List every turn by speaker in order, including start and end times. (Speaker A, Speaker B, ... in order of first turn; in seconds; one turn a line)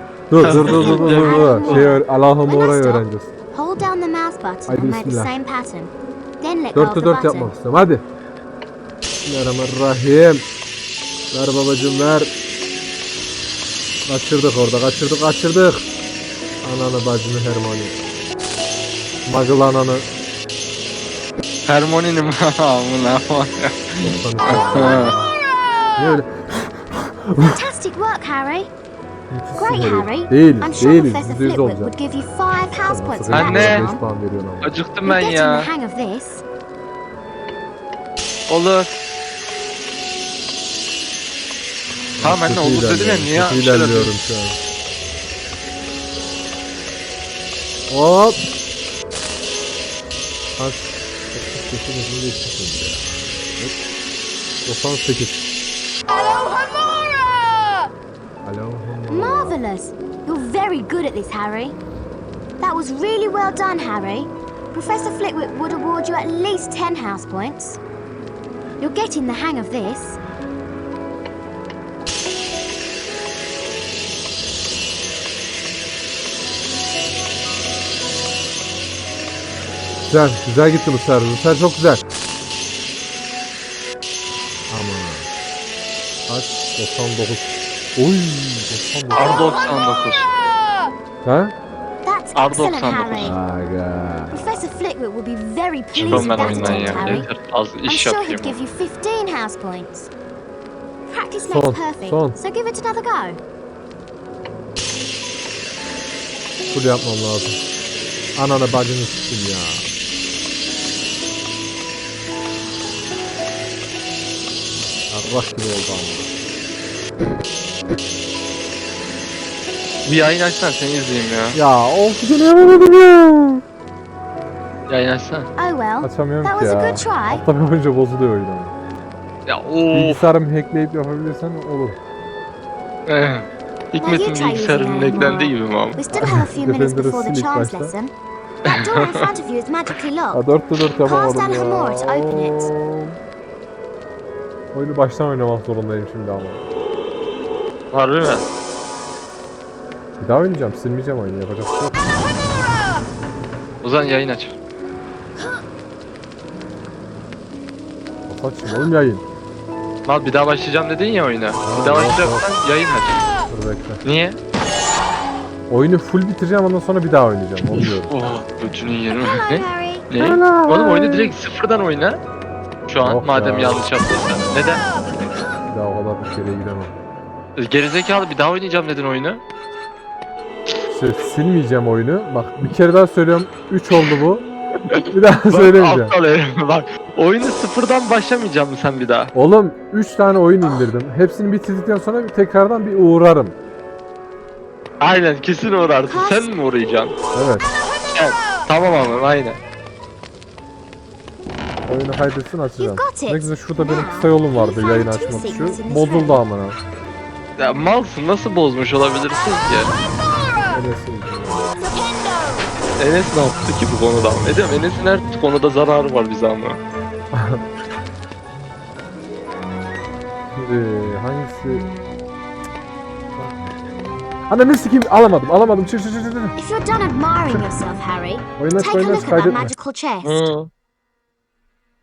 Speaker A: 0.3-3.3
Speaker B: 0.4-1.9
Speaker C: 0.6-7.5
Speaker A: 4.7-5.3
Speaker A: 6.7-8.0
Speaker A: 9.2-10.4
Speaker A: 11.3-12.3
Speaker A: 14.1-15.8
Speaker A: 16.6-18.0
Speaker A: 19.2-20.1
Speaker B: 21.6-25.1
Speaker A: 23.9-25.4
Speaker A: 26.0-27.6
Speaker C: 27.5-28.7
Speaker A: 29.3-31.9
Speaker C: 29.6-34.0
Speaker A: 32.8-34.8
Speaker B: 33.3-33.9
Speaker B: 34.6-35.7
Speaker C: 35.0-36.4
Speaker B: 38.5-38.9
Speaker A: 42.2-44.6
Speaker B: 42.2-44.1
Speaker A: 47.9-48.4
Speaker A: 50.6-53.7
Speaker A: 54.6-55.5
Speaker A: 58.4-59.6
Speaker C: 59.1-61.8
Speaker C: 62.6-67.8
Speaker C: 68.8-70.2
Speaker A: 80.1-82.0
Speaker A: 84.7-85.3
Speaker A: 86.3-89.5
Speaker B: 89.1-90.3
Speaker A: 91.2-91.5
Speaker C: 92.0-93.4
Speaker B: 92.3-93.3
Speaker A: 93.2-94.5
Speaker C: 94.3-97.3
Speaker B: 95.9-98.5
Speaker A: 96.0-97.2
Speaker C: 97.8-100.1
Speaker C: 101.1-103.4
Speaker A: 101.5-102.4
Speaker A: 106.7-107.6
Speaker A: 108.3-109.9
Speaker A: 115.1-116.3
Speaker B: 120.0-121.6
Speaker A: 121.5-123.6
Speaker B: 124.9-125.5
Speaker C: 125.5-127.4
Speaker A: 126.0-128.7
Speaker B: 129.5-130.2
Speaker A: 129.9-132.0
Speaker B: 133.1-136.1
Speaker C: 133.9-138.1
Speaker A: 136.1-137.9
Speaker C: 138.6-142.7
Speaker B: 138.7-139.2
Speaker A: 140.3-143.2
Speaker A: 144.7-146.6
Speaker B: 147.9-148.4
Speaker A: 150.2-152.2
Speaker B: 153.8-154.5
Speaker A: 158.3-159.2
Speaker B: 160.0-163.2
Speaker A: 161.6-162.5
Speaker A: 163.5-164.0
Speaker B: 164.0-164.4
Speaker A: 165.7-168.1
Speaker B: 167.7-172.2
Speaker C: 169.0-170.1
Speaker A: 170.2-171.3
Speaker B: 172.9-174.8
Speaker A: 173.0-173.9
Speaker A: 175.7-176.9
Speaker B: 177.6-179.4
Speaker A: 180.9-184.4
Speaker B: 184.9-189.3
Speaker A: 185.1-186.2
Speaker A: 189.3-193.5
Speaker B: 195.0-197.1
Speaker C: 196.1-196.5
Speaker A: 197.3-197.7
Speaker B: 198.1-199.6
Speaker A: 201.9-206.8
Speaker C: 202.7-206.4
Speaker B: 207.6-209.9
Speaker A: 210.7-211.9
Speaker B: 213.0-216.8
Speaker A: 214.1-214.6
Speaker A: 217.3-217.6
Speaker A: 220.6-221.9
Speaker A: 224.5-226.6
Speaker C: 226.6-230.5
Speaker A: 228.6-229.7
Speaker B: 230.2-230.7